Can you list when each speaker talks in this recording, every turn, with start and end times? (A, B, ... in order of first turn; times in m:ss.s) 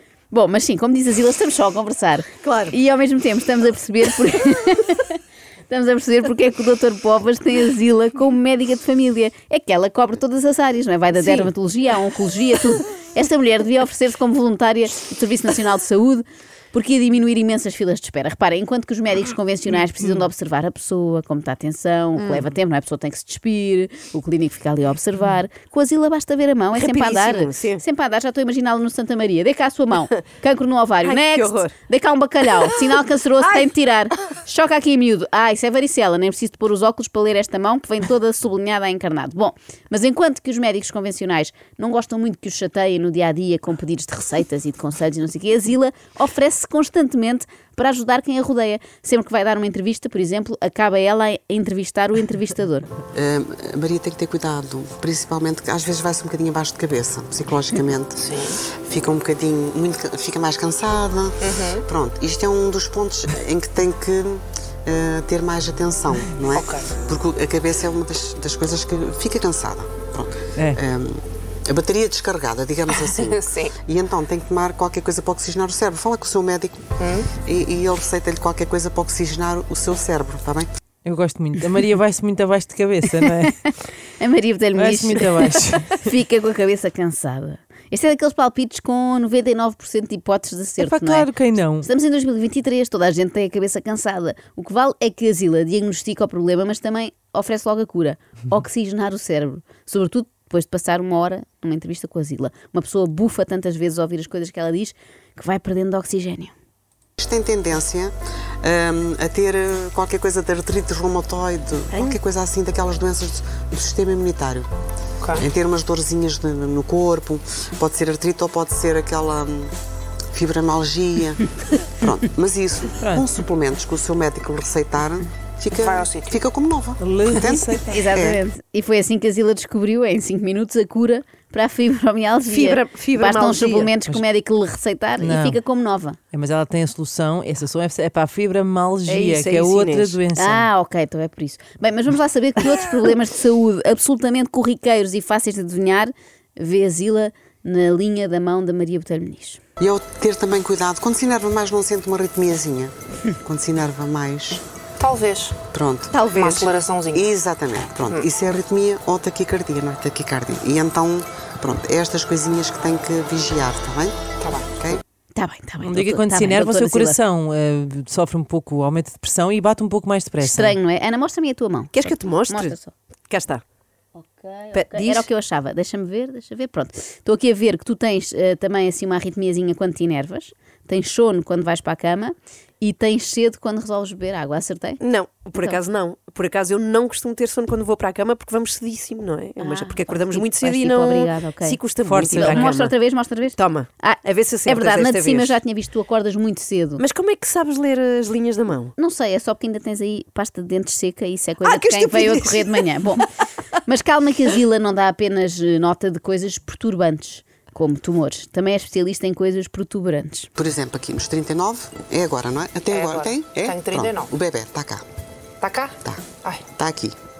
0:00.3-0:52.9 A
0:02.4-0:02.7 B
0:11.2-0:11.5 B
0:22.2-0:22.5 B
0:26.8-0:27.8 B
0:31.0-0:31.7 B
0:53.1-1:20.7 C
1:01.5-1:01.8 D
1:06.5-1:06.9 D
1:13.2-1:13.7 D
1:17.0-1:17.3 D
1:21.0-1:23.6 E
1:24.2-1:31.3 A
1:24.8-1:26.0 E
1:30.8-1:31.9 E
1:31.8-1:46.5 A
1:47.2-1:54.7 C
1:55.4-1:59.7 C
2:00.3-2:01.5 C
2:02.0-2:08.4 C
2:03.0-2:03.2 E
2:05.8-2:06.4 D
2:07.0-2:08.0 E
2:07.9-2:16.2 A
2:12.5-2:13.9 B
2:15.2-2:15.6 E
2:16.3-2:20.7 E
2:19.1-2:20.2 B
2:20.4-2:29.6 A
2:29.8-2:34.6 C
2:35.0-2:35.6 D
2:35.7-2:44.2 C
2:36.1-2:36.7 B
2:36.3-2:37.3 D
2:44.4-2:44.8 D
2:45.4-2:47.2 A
2:45.8-2:50.8 E
2:50.4-2:52.9 A
2:51.9-2:52.8 B
2:53.3-2:53.6 B
2:54.2-3:05.0 A
2:54.7-2:55.3 B
3:05.0-3:12.9 B
3:09.6-3:17.0 A
3:12.1-3:12.8 E
3:13.5-3:15.6 B
3:17.0-3:18.9 B
3:19.0-3:23.2 A
3:21.6-3:22.9 B
3:23.9-3:30.5 A
3:30.6-3:35.0 C
3:32.9-3:34.3 D
3:35.6-3:36.6 D
3:36.0-3:37.2 C